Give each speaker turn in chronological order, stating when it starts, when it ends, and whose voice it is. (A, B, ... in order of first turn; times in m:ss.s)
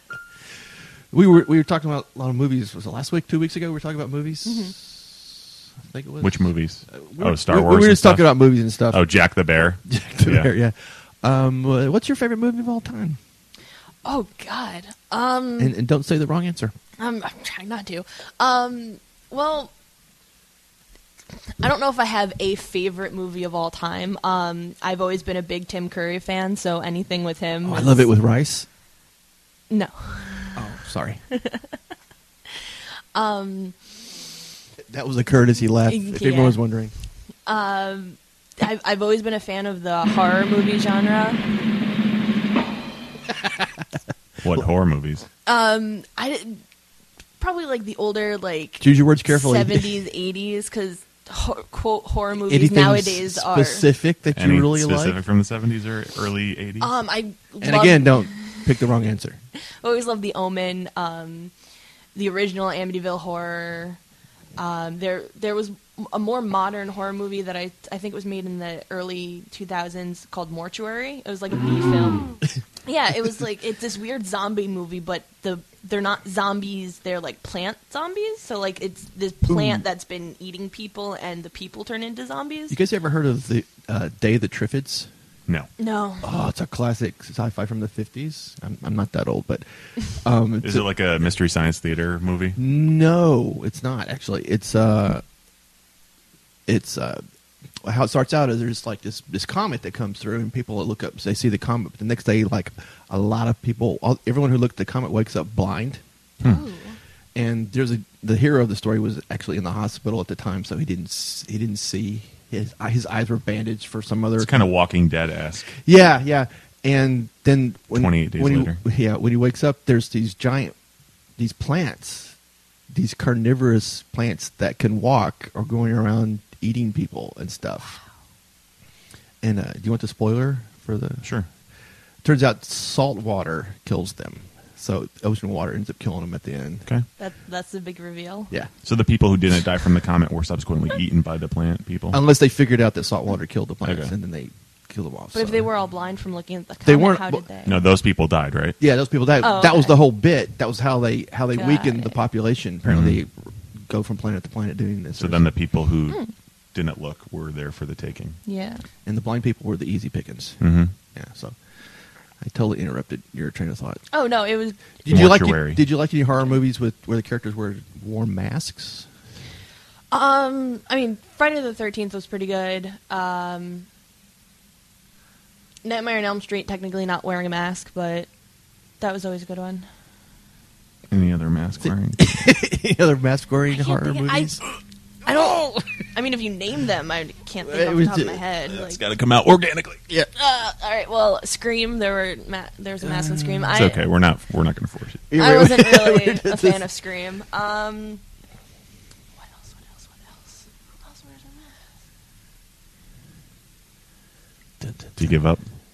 0:01.1-0:09.1 A
0:04.4-0:04.8 B
0:06.2-0:08.4 C
0:08.9-0:10.5 C
0:09.9-0:13.2 A
0:14.0-0:15.8 B
0:15.6-0:16.8 A
0:17.0-0:19.7 B
0:21.6-0:28.1 B
0:27.6-0:28.7 A
0:29.7-0:30.6 B
0:30.6-0:31.2 A
0:31.3-0:31.8 B
0:32.5-0:33.8 B
0:34.9-0:36.9 A
0:35.9-0:36.6 B
0:37.5-0:41.4 B
0:44.4-0:45.3 C
0:45.5-0:46.6 B
0:47.4-0:53.9 B
0:48.8-0:49.9 A
0:52.4-0:55.2 A
0:54.3-0:56.9 C
0:56.8-0:58.7 B
0:57.6-0:59.4 A
0:59.8-1:01.5 B
1:02.2-1:04.0 B
1:04.6-1:22.8 B
1:19.5-1:19.8 A
1:22.7-1:25.1 A
1:25.8-1:26.3 B
1:26.2-1:30.9 A
1:30.6-1:32.6 C
1:32.6-1:35.2 A
1:36.7-1:37.2 A
1:37.8-1:46.0 A
1:46.4-1:47.0 B
1:47.4-1:54.7 A
1:54.4-1:55.8 C
1:55.8-2:00.8 A
1:57.9-1:58.8 C
2:01.4-2:02.4 A
2:02.9-2:08.0 A
2:09.4-2:11.2 A
2:11.2-2:11.5 C
2:12.2-2:16.8 A
2:17.2-2:18.5 B
2:18.8-2:22.2 C
2:22.1-2:25.7 A
2:23.8-2:24.1 C
2:25.3-2:27.8 B
2:26.8-2:27.5 A
2:27.6-2:28.8 C
2:28.8-2:35.4 A
2:29.4-2:30.0 B
2:31.5-2:32.2 B
2:32.9-2:33.2 C
2:35.2-2:36.2 C
2:36.7-2:38.4 C
2:38.5-2:38.8 B
2:39.1-2:40.6 A
2:40.6-2:40.9 C
2:41.1-2:44.0 A
2:44.1-2:44.8 B
2:45.0-2:49.1 A
2:45.1-2:45.8 C
2:50.1-2:53.9 B
2:55.8-2:58.3 B
2:59.0-2:59.9 B
3:01.1-3:02.4 C
3:01.8-3:04.6 A
3:03.7-3:04.6 B
3:05.2-3:09.0 B
3:07.6-3:08.4 A
3:08.7-3:10.0 C
3:10.3-3:14.1 B
3:13.0-3:13.8 A
3:13.7-3:15.2 C
3:15.3-3:16.8 A
3:15.4-3:18.2 B
3:19.4-3:21.8 B
3:24.8-3:25.3 A
3:25.2-3:25.6 C